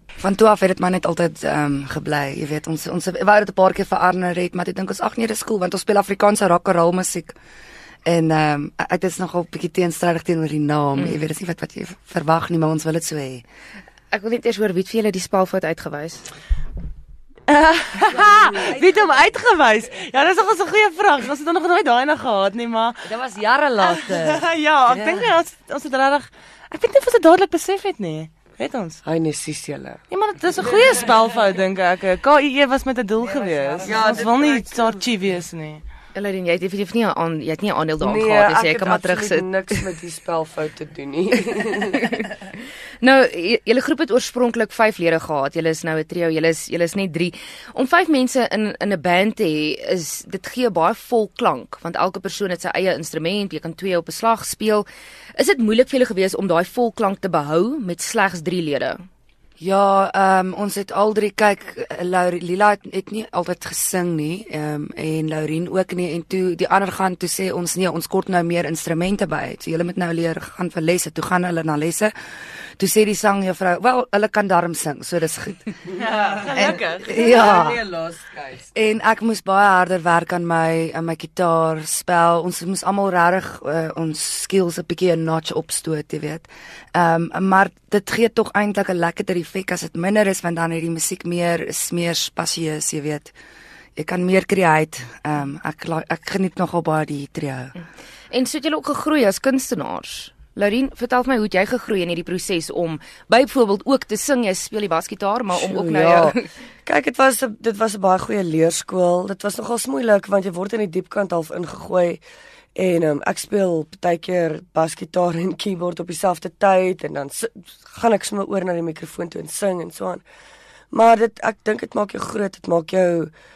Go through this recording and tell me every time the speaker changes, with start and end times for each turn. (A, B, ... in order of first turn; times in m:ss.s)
0:00.2-0:07.4 A
0:08.1-0:13.4 A
0:11.0-0:11.2 B
0:14.1-0:16.3 B
0:17.5-0:23.2 C
0:23.1-0:24.4 A
0:23.8-0:29.0 C
0:29.0-0:30.0 D
0:30.1-0:35.8 C
0:33.8-0:34.7 D
0:36.2-0:39.8 B
0:38.0-0:42.1 D
0:42.0-0:42.3 B
0:43.0-0:59.0 B
0:59.6-1:12.1 A
1:12.8-1:15.8 A
1:16.0-1:17.1 C
1:16.9-1:17.9 A
1:17.7-1:18.6 D
1:18.7-1:33.3 A
1:34.0-1:37.7 A
1:38.3-1:46.5 B
1:45.5-1:52.2 D
1:52.8-2:00.2 D
2:00.9-2:03.3 D